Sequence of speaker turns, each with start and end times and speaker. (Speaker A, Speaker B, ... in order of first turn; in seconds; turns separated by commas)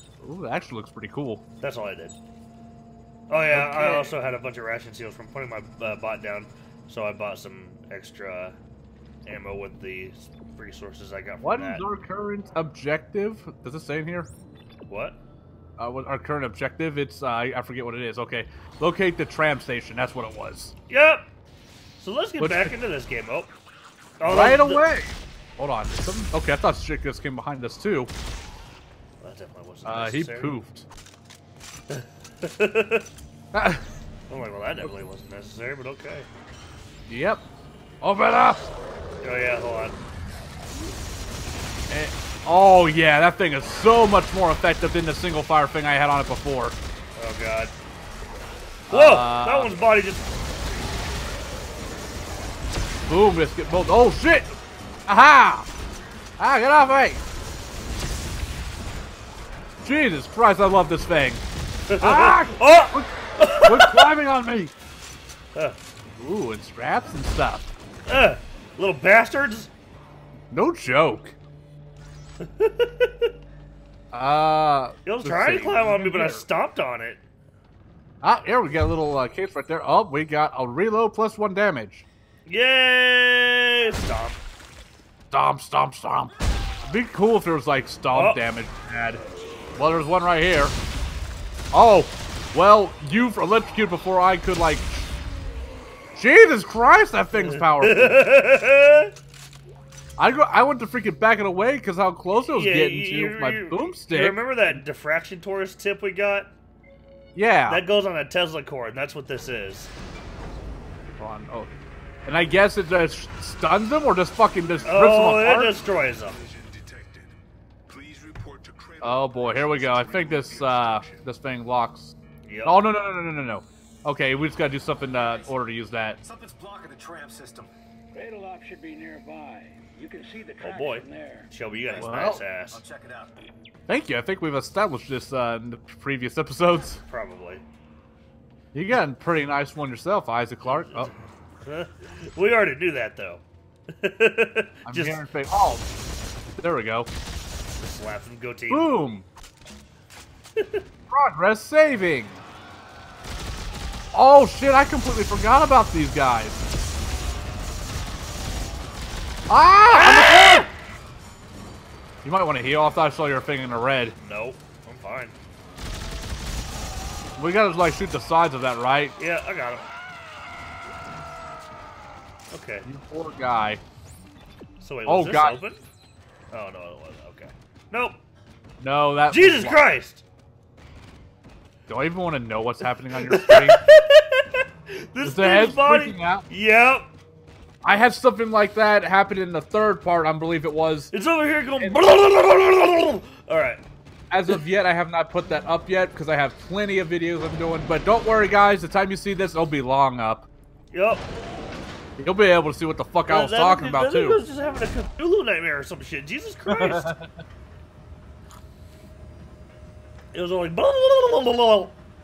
Speaker A: 0.2-1.4, Speaker B: 1.6-2.1, Speaker B: 3.3-8.6, Speaker A: 3.5-4.2, Speaker B: 9.2-11.8, Speaker A: 11.4-14.3, Speaker B: 14.9-15.2, Speaker A: 15.8-20.7, Speaker B: 20.9-21.3, Speaker B: 22.0-23.5, Speaker A: 22.4-22.7, Speaker B: 24.2-24.8, Speaker A: 24.2-28.1, Speaker B: 29.2-30.6, Speaker A: 29.8-30.9, Speaker B: 31.9-33.1, Speaker A: 33.5-33.9, Speaker B: 34.3-36.3, Speaker A: 37.1-37.4, Speaker A: 38.0-38.7, Speaker B: 39.2-40.0, Speaker A: 41.9-46.8, Speaker B: 47.1-47.7, Speaker A: 48.9-49.8, Speaker B: 48.9-50.3, Speaker A: 53.1-55.7, Speaker A: 56.4-57.2, Speaker A: 59.8-61.4, Speaker B: 61.9-64.1, Speaker A: 62.0-64.7, Speaker A: 66.2-67.7, Speaker B: 68.1-69.7, Speaker A: 70.5-71.3, Speaker B: 72.4-73.3, Speaker A: 74.1-76.4, Speaker B: 75.0-77.2, Speaker A: 78.2-82.0, Speaker B: 82.5-84.4, Speaker A: 85.3-86.3, Speaker A: 86.8-89.2, Speaker B: 88.1-88.4, Speaker A: 89.8-90.7, Speaker A: 91.7-95.1, Speaker A: 96.2-98.2, Speaker B: 97.4-99.1, Speaker A: 100.2-104.8, Speaker B: 102.5-106.5, Speaker A: 107.3-107.8, Speaker B: 107.7-109.9, Speaker A: 111.2-111.7, Speaker A: 112.2-115.7, Speaker B: 114.8-116.4, Speaker C: 115.9-117.3, Speaker C: 117.9-121.3, Speaker A: 119.0-126.2, Speaker B: 122.4-122.8, Speaker D: 125.1-127.7, Speaker E: 128.1-131.5, Speaker B: 130.6-132.8, Speaker D: 131.9-133.4, Speaker A: 132.0-132.4, Speaker A: 133.9-137.0, Speaker B: 137.0-137.6, Speaker A: 138.7-141.1, Speaker B: 140.7-145.2, Speaker A: 144.8-145.9, Speaker A: 146.5-147.1, Speaker B: 147.8-149.0, Speaker A: 148.7-149.3, Speaker B: 150.6-150.8, Speaker A: 151.1-152.4, Speaker A: 154.1-156.6, Speaker A: 159.5-160.7, Speaker B: 159.9-160.7, Speaker A: 162.2-164.1, Speaker B: 164.2-165.3, Speaker A: 167.4-169.2, Speaker B: 169.2-169.9, Speaker B: 172.5-172.9, Speaker A: 172.8-173.8, Speaker B: 174.8-175.8, Speaker A: 175.1-175.6, Speaker B: 176.5-178.2, Speaker A: 178.8-179.8, Speaker B: 179.3-180.2, Speaker A: 181.9-183.8, Speaker B: 183.2-187.1, Speaker A: 185.2-186.4, Speaker A: 187.8-191.1, Speaker B: 191.1-193.8, Speaker A: 194.3-200.5, Speaker B: 200.9-201.2, Speaker A: 202.2-204.4, Speaker B: 203.3-207.1, Speaker A: 206.7-207.4, Speaker B: 210.3-211.9